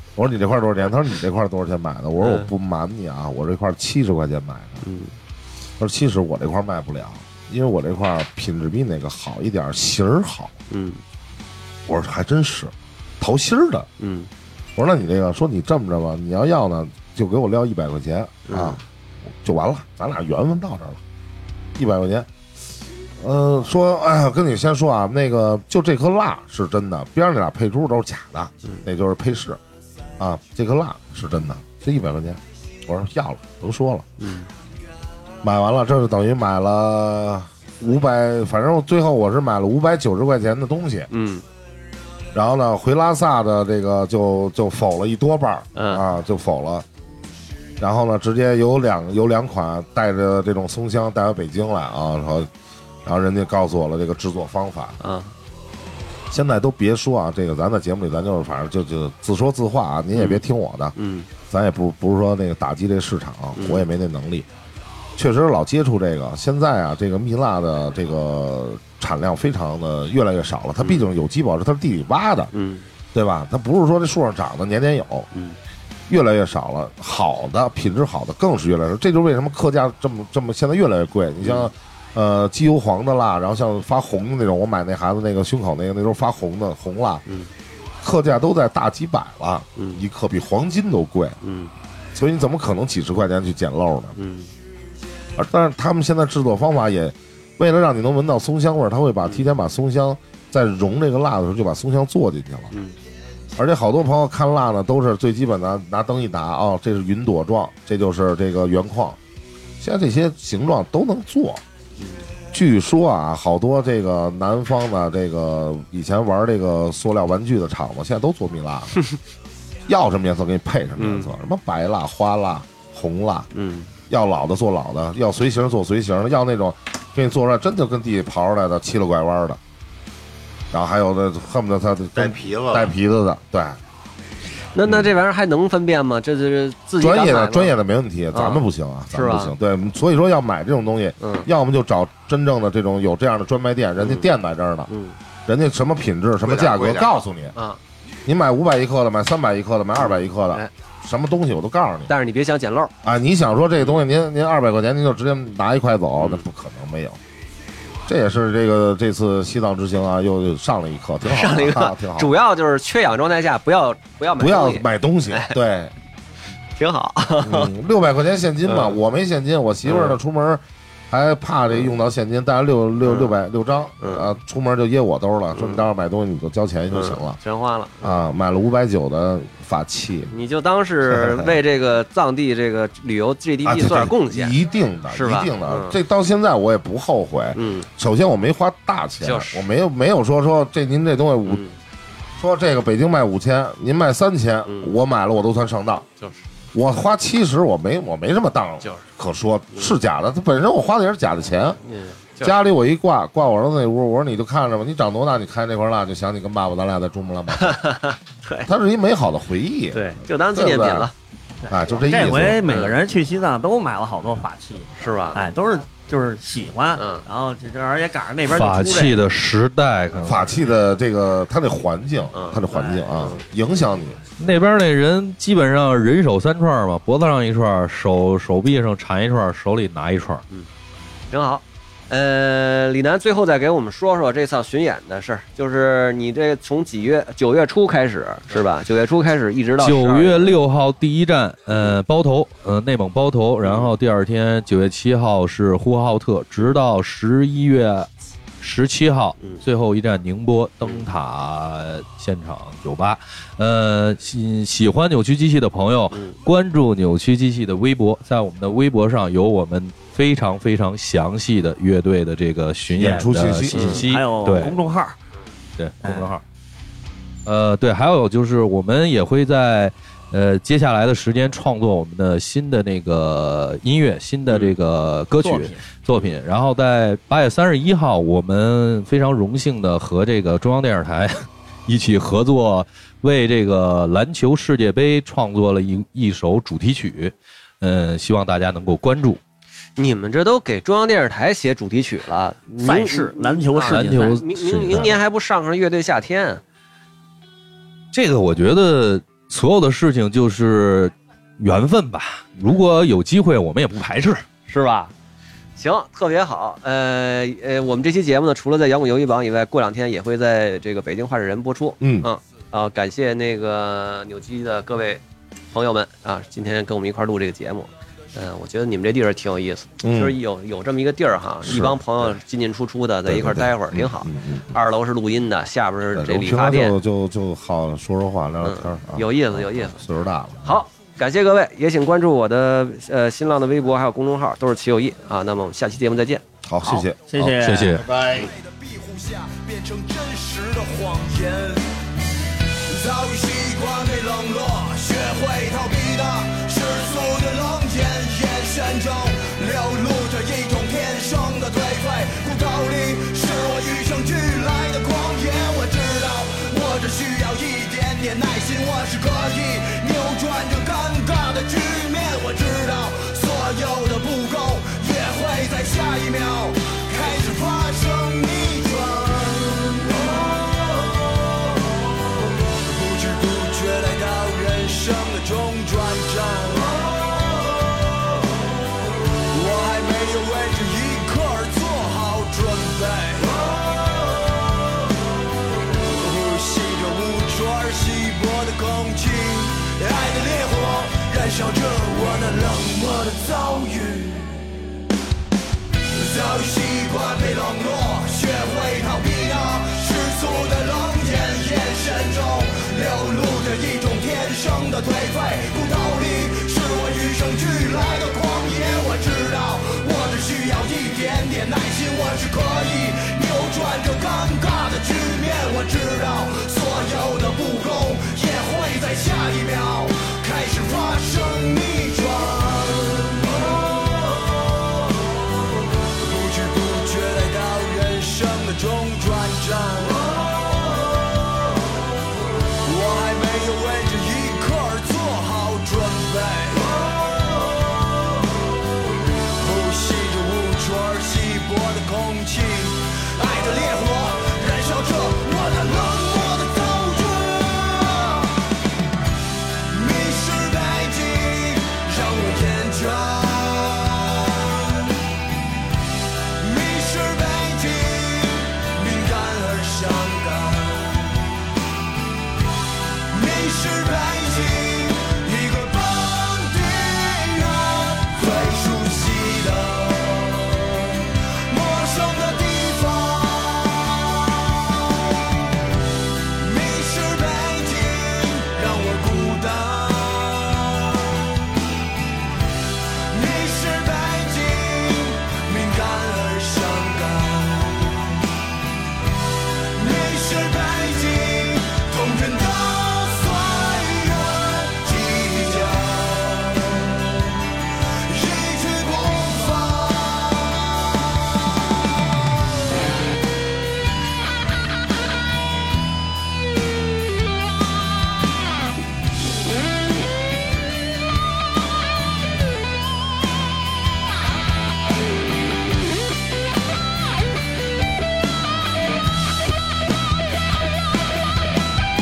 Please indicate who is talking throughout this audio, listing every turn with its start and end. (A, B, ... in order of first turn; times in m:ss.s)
0:00.2-0:04.8 A
0:02.2-0:02.5 B
0:04.8-0:05.1 B
0:05.8-0:10.5 A
0:10.7-0:11.0 B
0:11.9-0:13.9 A
0:14.0-0:14.3 B
0:14.8-0:21.0 A
0:18.5-0:18.8 B
0:21.8-0:22.3 A
0:23.2-0:29.6 A
0:30.2-0:34.1 A
0:34.2-0:34.5 B
0:35.4-0:41.1 A
0:41.1-0:41.4 B
0:42.3-0:46.9 A
0:45.8-0:46.0 B
0:47.8-0:52.5 A
0:53.0-0:55.0 A
0:55.0-0:55.3 B
0:56.3-1:01.0 A
1:00.1-1:00.4 B
1:01.0-1:01.3 B
1:01.5-1:04.5 A
1:03.6-1:03.8 B
1:05.1-1:12.5 A
1:10.8-1:11.1 B
1:12.5-1:12.9 B
1:13.1-1:15.3 A
1:16.1-1:27.2 A
1:21.4-1:21.7 B
1:28.0-1:31.4 A
1:29.8-1:30.0 B
1:31.4-1:31.7 B
1:32.1-1:34.2 A
1:34.2-1:34.5 B
1:35.4-1:42.7 A
1:43.6-1:49.2 A
1:49.8-1:51.6 A
1:52.5-1:59.0 A
1:59.9-2:03.5 A
2:01.0-2:01.3 B
2:03.5-2:03.9 B
2:04.1-2:09.6 A
2:10.7-2:13.8 A
2:12.1-2:12.9 C
2:14.7-2:17.7 B
2:14.8-2:15.1 A
2:17.0-2:24.9 A
2:18.3-2:19.5 B
2:21.2-2:21.5 B
2:24.0-2:24.3 B
2:24.9-2:25.2 B
2:25.4-2:27.6 A
2:26.4-2:27.1 C
2:28.2-2:32.1 A
2:30.0-2:30.7 B
2:32.1-2:32.9 B
2:33.0-2:37.2 A
2:36.2-2:36.4 B
2:38.0-2:42.4 A
2:41.2-2:45.6 B
2:44.4-2:45.9 A
2:46.8-2:47.7 B
2:47.4-2:57.4 A
2:48.7-2:49.0 B
2:49.8-2:50.2 B
2:53.0-2:53.4 B
2:54.0-2:54.3 B
2:55.5-2:55.9 B
2:56.9-2:58.2 B
2:58.0-3:00.3 A
3:00.3-3:04.5 B
3:01.0-3:01.6 A
3:03.6-3:11.6 A
3:05.1-3:06.0 B
3:07.6-3:07.9 B
3:09.2-3:09.6 B
3:11.4-3:11.8 B
3:12.4-3:16.1 A
3:14.7-3:14.9 B
3:16.7-3:21.8 A
3:21.9-3:22.6 B
3:22.4-3:28.0 A
3:27.6-3:28.7 B
3:28.6-3:31.1 A
3:29.9-3:31.1 B
3:31.7-3:32.8 A
3:31.8-3:39.2 D
3:32.6-3:32.9 B
3:35.0-3:35.4 B
3:37.0-3:37.2 B
3:38.4-3:40.5 E
3:40.2-3:44.2 A
3:42.3-3:42.6 B
3:44.4-3:50.4 E
3:51.3-4:00.6 B
3:59.8-4:08.1 E
4:03.6-4:03.9 B
4:08.6-4:24.7 E
4:10.8-4:11.1 B
4:16.1-4:16.4 B
4:22.9-4:24.0 A
4:23.0-4:25.2 D
4:23.7-4:24.0 B
4:25.8-4:26.4 E
4:26.0-4:26.3 D
4:27.4-4:49.4 E
4:34.5-4:34.7 B
4:35.4-4:35.9 D
4:50.0-4:56.6 B
4:52.8-4:54.4 D
4:53.8-4:55.2 E
4:58.1-5:04.4 E
5:04.7-5:05.1 B
5:05.8-5:27.0 B
5:12.0-5:12.3 A
5:20.0-5:20.4 A
5:21.6-5:22.0 A
5:23.3-5:24.7 A
5:26.1-5:30.8 A
5:28.6-5:30.0 B
5:30.6-5:36.4 B
5:36.6-5:37.6 A
5:36.8-5:38.0 D
5:37.6-5:38.0 E
5:37.9-5:38.5 C
5:38.4-5:42.0 F
5:42.9-6:11.2 F
6:12.8-6:17.5 F
6:19.5-6:24.4 F
6:26.0-6:34.8 F
6:36.1-7:04.4 F
7:06.2-7:10.9 F
7:12.8-7:17.6 F
7:19.6-7:28.6 F
7:29.9-7:35.1 F
7:36.6-7:41.3 F
7:43.3-7:55.6 F
7:56.6-8:01.4 F
8:03.3-8:08.3 F
8:09.9-8:17.4 F
8:18.2-8:20.9 F